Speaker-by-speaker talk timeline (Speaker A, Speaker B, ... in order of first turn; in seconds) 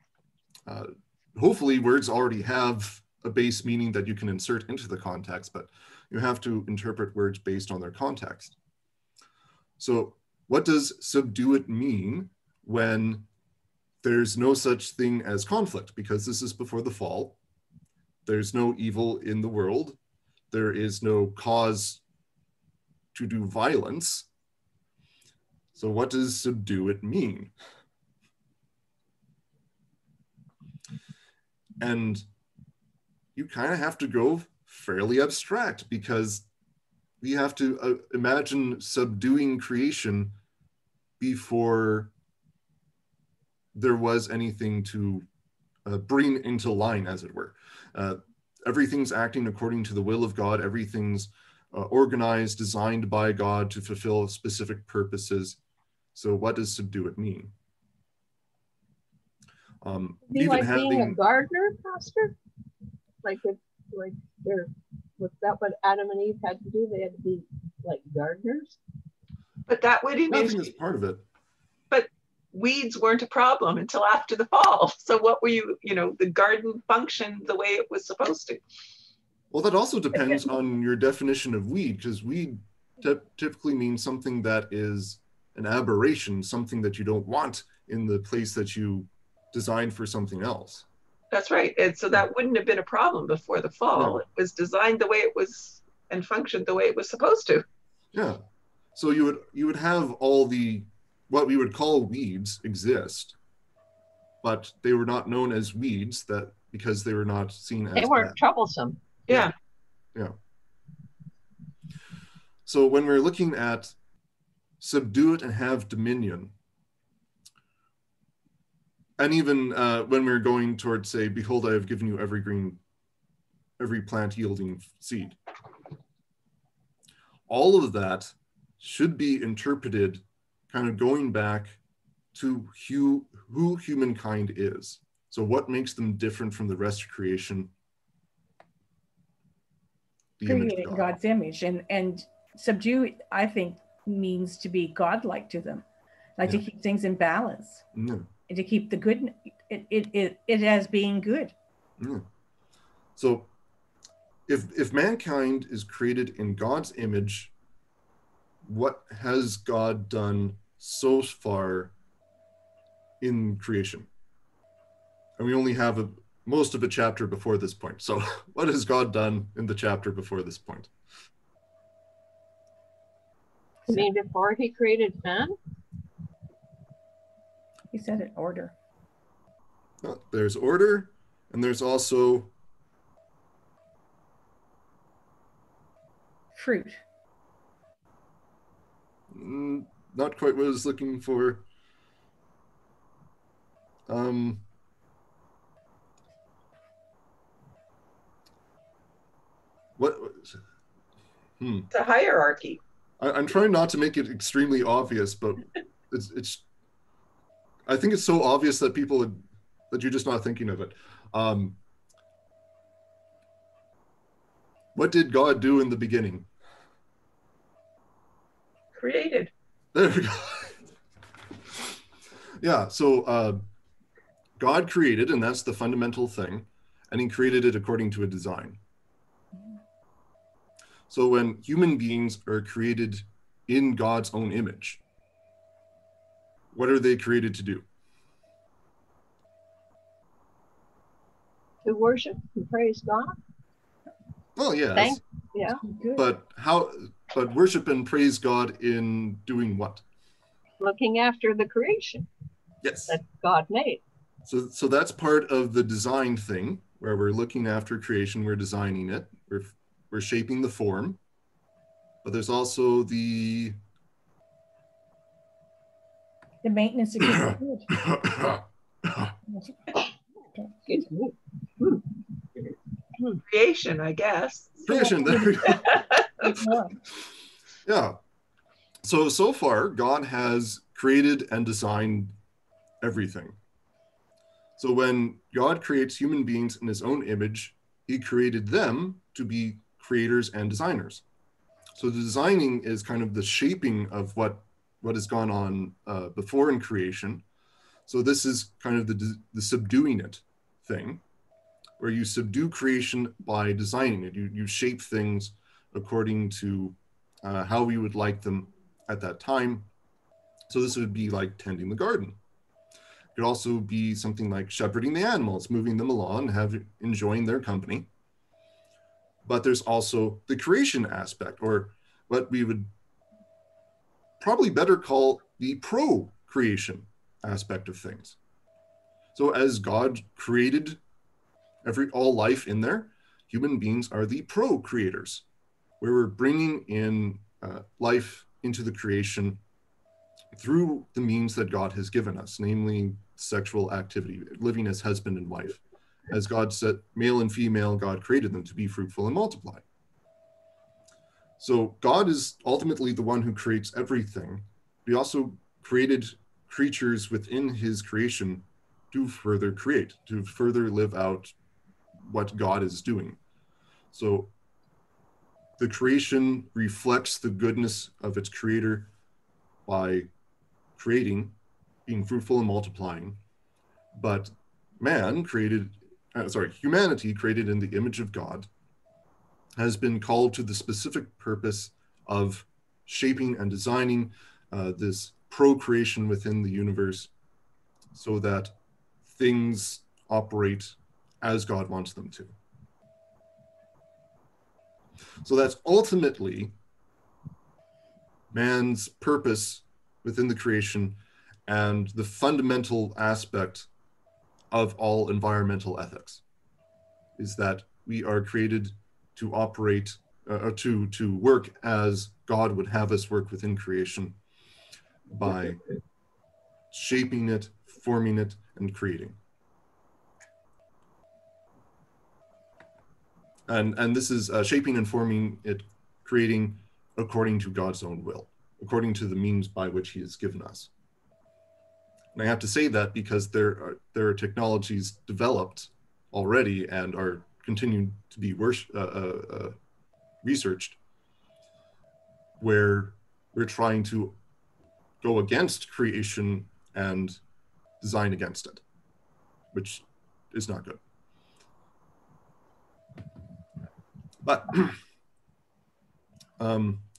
Speaker A: 0.7-8.6, 9.8-13.3, 14.0-17.4, 18.2-20.0, 20.5-22.0, 23.1-24.3, 25.7-27.5, 31.8-32.2, 33.4-36.5, 37.2-40.3, 41.2-42.1, 43.7-45.2, 45.9-55.6, 56.1-57.5, 59.8-61.2, 70.3-71.2, 79.5-90.8, 93.9-94.2, 98.1-98.4, 98.9-103.3, 104.4-108.4, 112.7-113.9, 114.8-116.5, 119.2-122.8, 123.8-125.4, 127.5-131.8, 132.3-137.7, 140.4-141.2, 147.9-148.3, 152.0-152.2, 153.2-153.5, 154.5-157.5, 158.6-161.9, 163.2-164.1, 165.4-170.9, 180.0-182.5, 189.3-191.6, 194.1-194.6, 200.0-200.6, 201.6-201.9, 203.2-206.6, 207.9-211.8, 214.9-216.5, 219.9-220.7, 222.6-223.6, 224.6-228.8, 231.1-235.0, 236.7-237.8, 244.6-245.2, 246.2-250.0, 252.8-253.2, 254.4-261.2, 262.2-263.8, 267.2-269.3, 274.9-276.0, 277.9-278.2, 279.0-282.3, 283.0-283.6, 284.8-291.2, 292.0-297.4, 298.1-301.2, 302.0-309.9, 310.7-312.4, 313.4-318.1, 319.4-322.9, 324.4-328.4, 329.3-331.0, 331.8-335.4, 336.0-339.6, 340.5-349.8, 351.6-361.5, 362.2-363.4, 364.1-364.5, 365.8-369.1, 369.9-370.3, 370.9-371.5, 372.1-373.4, 374.1-378.7, 379.8-387.3, 388.1-388.7, 389.3-392.5, 395.4-396.7, 398.5-403.9, 404.7-406.4, 407.4-414.4, 415.3-415.8, 416.9-419.4, 423.7-430.9, 432.3-439.8, 440.4-441.0, 442.6-444.4, 445.2-447.4, 448.0-448.8, 449.7-451.0, 454.4-455.0, 456.6-457.0
Speaker B: 60.3-62.3, 63.2-68.8, 108.0-109.0, 173.9-175.6, 241.8-243.3, 244.9-245.8, 250.8-252.3, 253.1-254.0, 270.9-272.1
Speaker C: 69.7-70.7, 71.9-78.6, 91.3-97.6, 201.9-202.8, 218.9-219.5, 273.4-275.1, 275.6-276.4
Speaker D: 140.4-145.8, 146.4-147.8, 148.5-151.5, 177.9-178.7, 186.6-187.0, 245.8-246.2, 266.6-268.1, 269.5-270.0, 274.9-275.4, 276.4-276.9